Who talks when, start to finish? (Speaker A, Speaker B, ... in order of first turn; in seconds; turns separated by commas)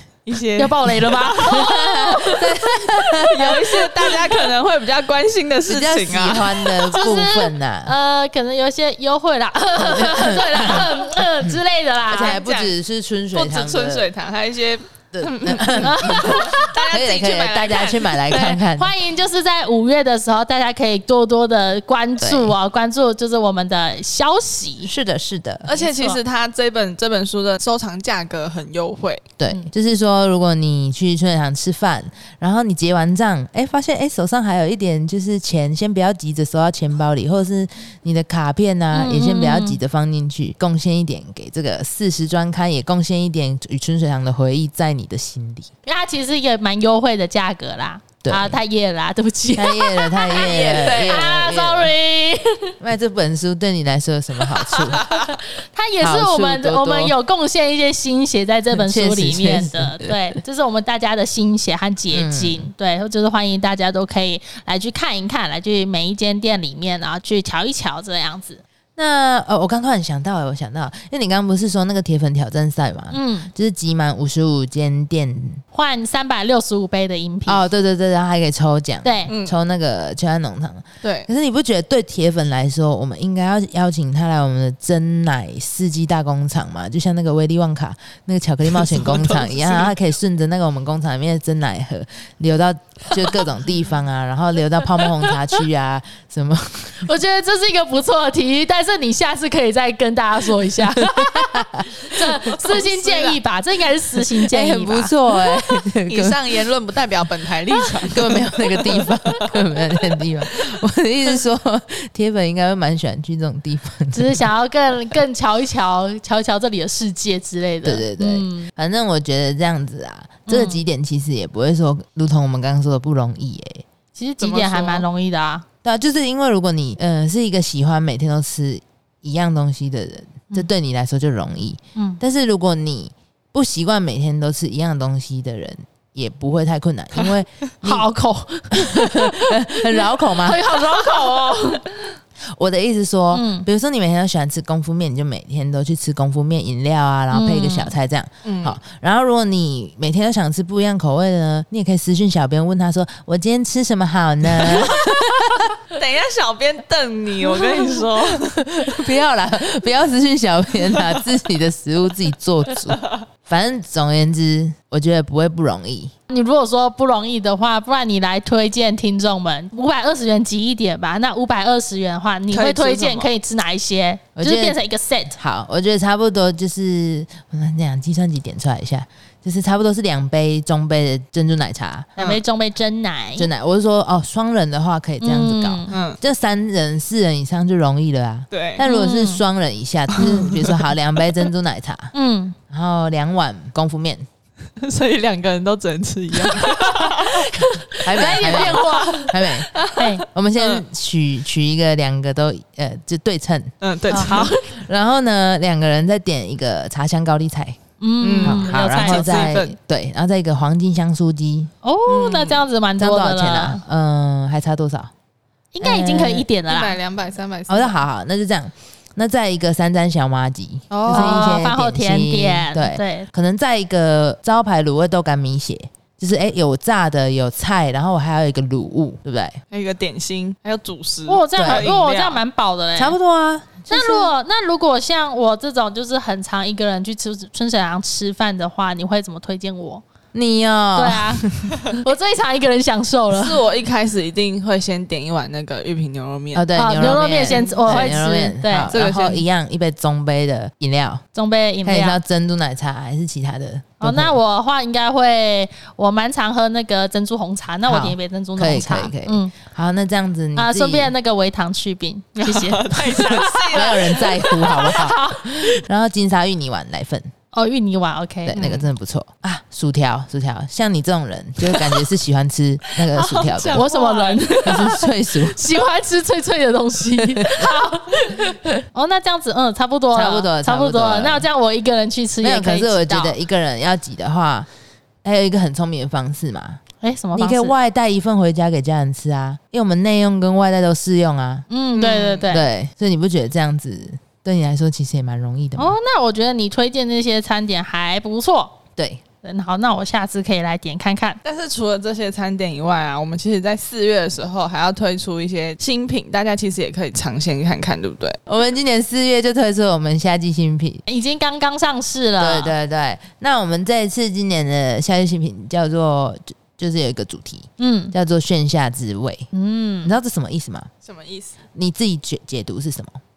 Speaker A: 0.3-1.8, Speaker B: 0.6-2.6, Speaker C: 1.4-4.2, Speaker A: 3.2-6.8, Speaker C: 5.7-8.0, Speaker B: 6.9-12.4, Speaker C: 9.8-14.1, Speaker A: 12.2-12.7, Speaker A: 13.3-18.4, Speaker C: 15.1-18.9, Speaker B: 15.8-16.8, Speaker B: 18.3-24.9, Speaker C: 22.2-22.6, Speaker C: 24.9-25.7, Speaker A: 25.7-29.3, Speaker B: 25.7-26.2, Speaker C: 29.4-45.7, Speaker B: 38.9-39.8, Speaker B: 45.9-52.7, Speaker C: 48.2-48.6, Speaker C: 49.5-51.9, Speaker A: 50.3-51.3, Speaker C: 52.8-55.0, Speaker A: 54.7-55.3, Speaker B: 55.0-68.6, Speaker C: 56.0-57.2, Speaker C: 58.7-60.4, Speaker C: 62.1-62.7, Speaker C: 69.0-75.6, Speaker B: 73.1-73.5, Speaker B: 75.7-77.6, Speaker C: 77.5-97.1, Speaker B: 79.0-79.3, Speaker A: 79.3-79.6, Speaker A: 81.0-81.3, Speaker A: 88.8-89.9, Speaker B: 97.0-105.1, Speaker C: 101.0-102.0, Speaker A: 102.5-103.4, Speaker C: 104.4-106.4, Speaker A: 106.1-109.1, Speaker C: 108.0-114.5, Speaker B: 114.1-118.7, Speaker C: 117.8-123.8, Speaker B: 120.5-120.8, Speaker B: 124.2-125.7, Speaker A: 124.4-125.1, Speaker C: 125.8-138.1, Speaker B: 137.8-141.9, Speaker C: 138.7-140.7, Speaker C: 142.5-155.7, Speaker B: 143.3-143.7, Speaker B: 147.3-147.9, Speaker A: 148.4-148.8, Speaker A: 155.9-158.6, Speaker C: 158.4-166.1, Speaker B: 166.3-175.4, Speaker A: 172.5-173.3, Speaker C: 174.4-174.8, Speaker C: 175.4-182.4, Speaker B: 182.2-183.5, Speaker C: 183.4-192.1, Speaker B: 185.2-185.9, Speaker A: 185.9-186.2, Speaker A: 188.5-188.8, Speaker B: 188.8-189.4, Speaker A: 190.2-190.8, Speaker B: 192.1-192.6, Speaker C: 192.7-194.3, Speaker A: 194.8-200.8, Speaker B: 196.6-199.3, Speaker C: 198.0-199.7, Speaker B: 199.9-200.2, Speaker C: 200.3-207.8, Speaker A: 203.8-204.6, Speaker B: 204.1-204.6, Speaker B: 208.0-209.5, Speaker A: 208.2-209.8, Speaker C: 208.4-211.7, Speaker B: 211.8-213.8, Speaker A: 212.1-212.7, Speaker C: 213.0-215.1, Speaker B: 215.7-217.0, Speaker C: 215.8-216.5, Speaker A: 216.7-218.0, Speaker C: 217.7-229.6, Speaker A: 220.9-221.6, Speaker B: 221.1-223.3, Speaker A: 229.7-232.4, Speaker B: 231.3-233.2, Speaker C: 231.6-231.9, Speaker C: 233.0-234.3, Speaker B: 233.9-240.0, Speaker C: 240.3-241.9, Speaker B: 240.9-243.6, Speaker A: 243.3-248.2, Speaker C: 246.5-251.2, Speaker B: 246.8-248.9, Speaker A: 248.9-249.4, Speaker B: 251.3-252.2, Speaker C: 251.8-254.4, Speaker B: 254.0-259.5, Speaker C: 257.9-261.1, Speaker B: 260.6-265.8, Speaker A: 262.4-264.3, Speaker C: 263.7-267.3, Speaker B: 267.5-268.6, Speaker C: 268.5-273.9, Speaker A: 268.6-268.9, Speaker A: 273.0-274.9, Speaker B: 273.7-283.4, Speaker C: 274.6-275.6, Speaker C: 277.2-277.7, Speaker C: 280.1-281.5, Speaker C: 282.4-284.7, Speaker C: 285.2-286.8, Speaker B: 287.0-287.8, Speaker C: 287.4-291.7, Speaker B: 291.7-292.6, Speaker A: 291.9-292.5, Speaker C: 292.5-295.9, Speaker B: 295.8-298.8, Speaker B: 299.4-301.4, Speaker A: 301.4-308.4, Speaker C: 308.5-311.0, Speaker B: 311.1-312.7, Speaker C: 312.4-319.5, Speaker B: 317.8-318.1, Speaker B: 319.5-320.1, Speaker C: 320.0-320.9, Speaker A: 321.0-321.6, Speaker C: 321.8-323.2